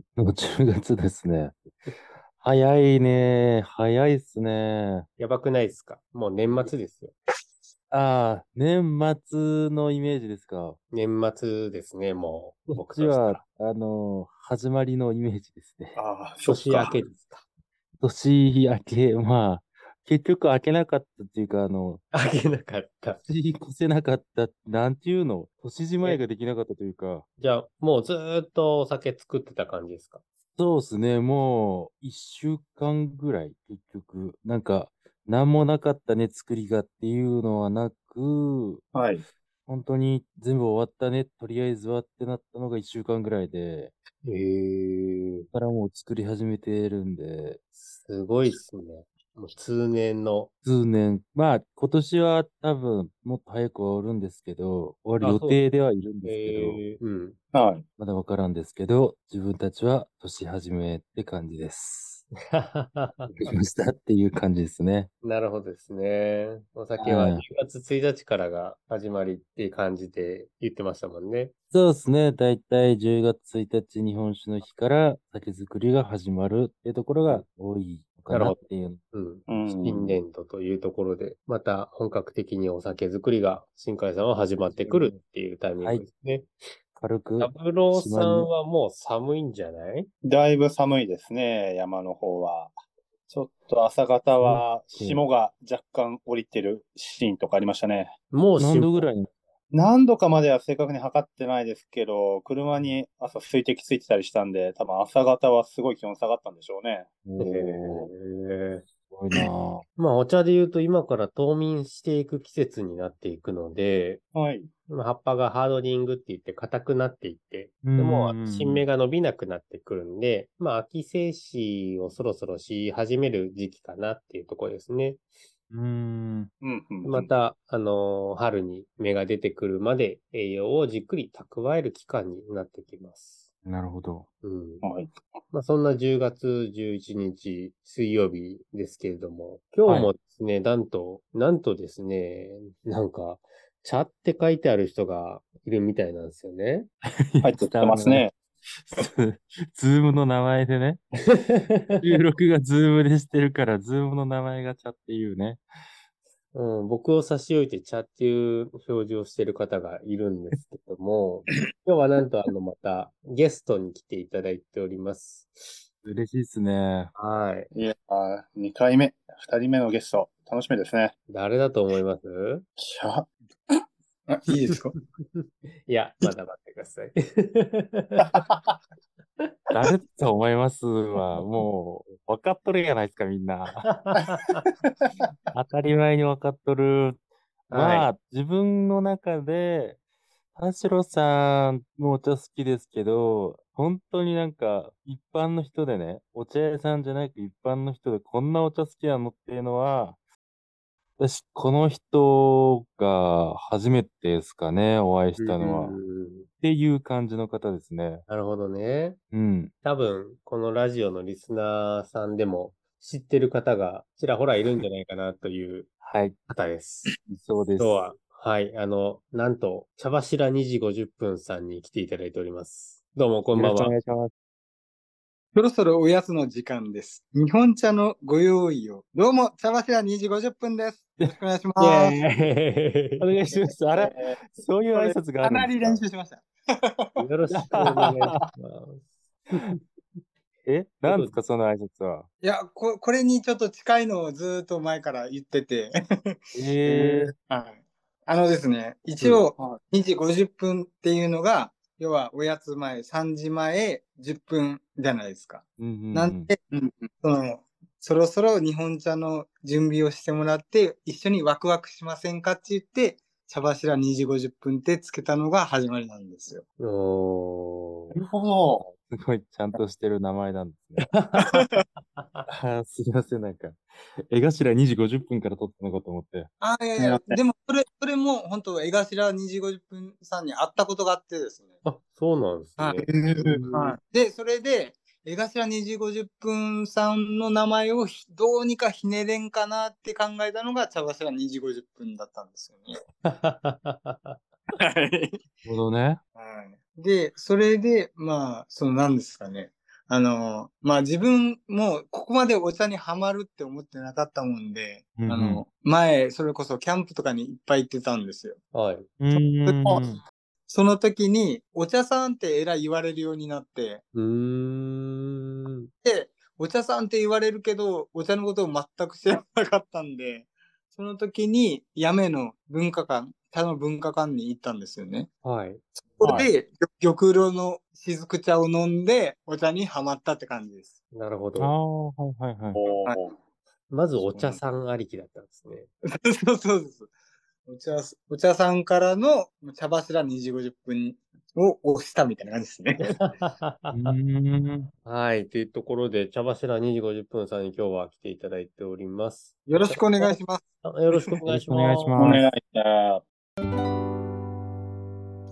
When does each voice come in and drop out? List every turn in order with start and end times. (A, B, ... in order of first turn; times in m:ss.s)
0:00.2-0:01.6 A
0:02.4-0:05.1 A
0:05.2-0:07.1 B
0:07.9-0:10.8 A
0:10.9-0:13.4 B
0:12.7-0:16.0 A
0:16.0-0:17.1 C
0:16.4-0:17.4 B
0:18.0-0:22.0 A
0:22.1-0:23.2 B
0:23.2-0:27.3 A
0:27.4-0:30.2 B
0:30.6-0:38.8 A
0:38.9-0:39.2 C
0:39.7-0:43.9 A
0:44.2-0:45.5 B
0:45.5-0:47.6 A
0:47.8-0:50.5 B
0:50.6-0:56.8 A
0:55.2-0:55.6 B
0:56.2-0:57.4 B
0:57.5-0:57.8 C
0:58.0-1:02.3 A
1:02.5-1:03.5 B
1:03.4-1:05.1 A
1:05.2-1:11.5 B
1:07.0-1:07.4 A
1:11.7-1:19.0 A
1:18.3-1:18.6 B
1:19.1-1:26.5 B
1:19.5-1:20.2 C
1:24.7-1:25.2 A
1:25.8-1:26.0 A
1:27.0-1:28.5 A
1:27.4-1:30.1 B
1:30.2-1:32.7 C
1:33.3-1:38.2 C
1:34.4-1:35.2 A
1:38.3-1:39.1 B
1:38.6-1:39.3 A
1:39.7-1:48.1 C
1:47.2-1:47.5 A
1:47.4-1:48.8 B
1:49.1-1:49.8 A
1:50.0-1:54.2 B
1:54.3-1:54.7 C
1:54.9-2:05.2 B
1:57.8-1:58.8 A
2:05.7-2:06.5 A
2:06.6-2:07.3 C
2:07.0-2:13.4 B
2:13.6-2:14.3 A
2:14.4-2:14.8 B
2:14.8-2:15.2 C
2:15.5-2:26.9 B
2:27.0-2:28.2 A
2:27.4-2:28.3 C
2:28.9-2:31.0 A
2:31.2-2:32.1 B
2:32.0-2:35.6 A
2:36.5-2:45.8 B
2:46.0-2:47.1 A
2:47.1-2:47.7 B
2:47.7-2:51.1 C
2:51.3-2:52.6 B
2:52.8-2:53.8 C
2:54.3-2:54.9 D
2:55.3-2:58.4 B
2:58.3-2:58.8 C
2:59.7-3:03.9 A
3:03.8-3:04.7 B
3:05.5-3:10.0 A
3:07.7-3:08.1 B
3:10.5-3:20.2 A
3:21.2-3:26.0 A
3:25.4-3:26.5 B
3:26.6-3:28.2 A
3:28.3-3:29.2 B
3:29.3-3:29.7 A
3:29.8-3:35.9 B
3:36.0-3:36.4 A
3:36.5-3:37.1 B
3:37.3-3:38.1 A
3:37.8-3:43.9 B
3:43.6-3:44.3 A
3:45.5-3:52.2 D
3:51.8-3:53.3 B
3:53.2-3:56.0 A
3:54.0-3:54.4 C
3:54.9-3:57.2 D
3:57.2-3:59.8 B
3:57.6-3:58.4 A
4:00.6-4:02.3 A
4:01.0-4:01.3 B
4:02.4-4:06.4 D
4:06.5-4:07.3 A
4:07.3-4:26.6 D
4:09.2-4:09.8 C
4:15.8-4:16.5 A
4:26.8-4:28.1 B
4:28.2-4:28.9 C
4:28.9-4:31.1 A
4:31.1-4:32.4 B
4:32.5-4:36.5 A
4:36.6-4:41.7 D
4:37.0-4:37.4 C
4:41.8-4:43.9 B
4:42.8-4:43.1 D
4:43.0-4:43.9 C
4:43.7-4:52.9 D
4:53.2-4:54.4 B
4:54.8-4:55.4 D
4:55.6-4:56.2 A
4:56.4-5:08.6 D
5:05.2-5:05.6 A
5:08.7-5:09.1 B
5:09.2-5:10.2 A
5:09.3-5:10.0 D
5:10.7-5:14.0 D
5:14.1-5:15.9 B
5:16.0-5:25.3 D
5:25.4-5:25.8 B
5:26.0-5:31.0 D
5:26.2-5:26.5 C
5:31.1-5:31.7 B
5:31.6-5:32.8 A
5:32.7-5:33.3 C
5:33.9-5:35.9 B
5:34.3-5:34.6 D
5:36.0-5:37.1 D
5:37.6-5:43.2 D
5:43.0-5:44.1 B
5:43.9-5:44.9 A
5:45.0-5:52.2 B
5:49.6-5:50.6 D
5:51.5-5:52.4 A
5:52.2-5:53.2 C